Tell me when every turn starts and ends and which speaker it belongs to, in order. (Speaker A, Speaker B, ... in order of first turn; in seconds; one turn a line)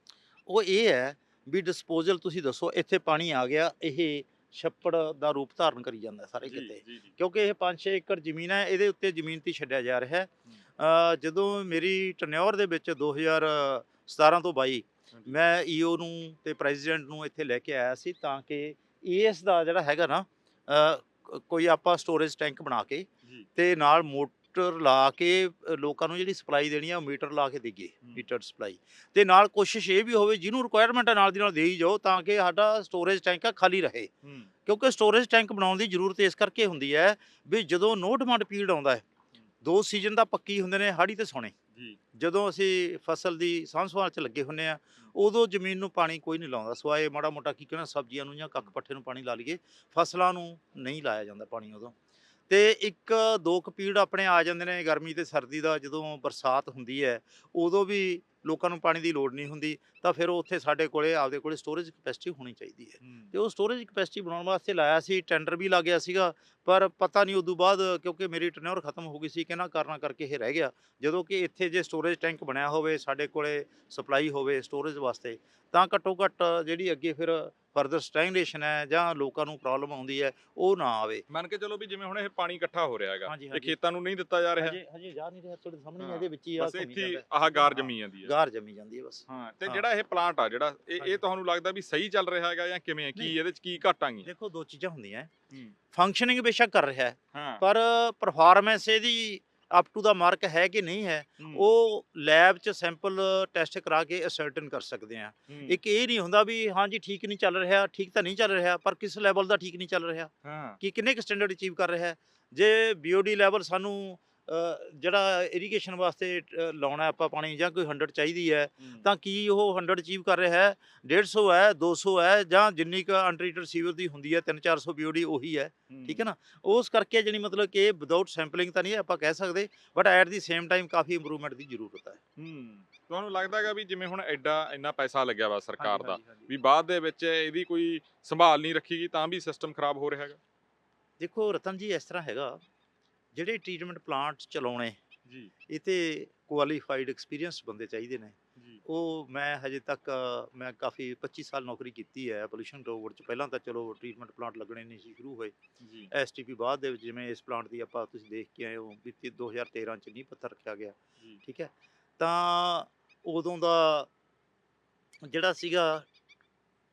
Speaker A: 0.5-34.1
Speaker B: 6.5-7.1
Speaker B: 34.2-34.5
Speaker A: 34.6-39.0
Speaker A: 39.6-41.5
Speaker A: 42.1-51.9
Speaker A: 52.5-81.2
Speaker B: 63.0-63.3
Speaker B: 81.3-84.8
Speaker A: 83.2-83.8
Speaker A: 84.6-89.8
Speaker B: 86.0-88.3
Speaker B: 89.3-94.3
Speaker A: 94.2-95.3
Speaker A: 95.9-132.2
Speaker B: 97.3-97.6
Speaker B: 105.5-105.8
Speaker B: 110.4-110.8
Speaker B: 125.9-126.2
Speaker B: 132.4-140.4
Speaker A: 135.8-136.5
Speaker A: 141.2-142.6
Speaker A: 143.3-145.0
Speaker B: 145.2-145.5
Speaker A: 145.7-155.5
Speaker B: 148.6-148.8
Speaker B: 155.8-156.1
Speaker A: 156.1-164.1
Speaker A: 165.2-166.0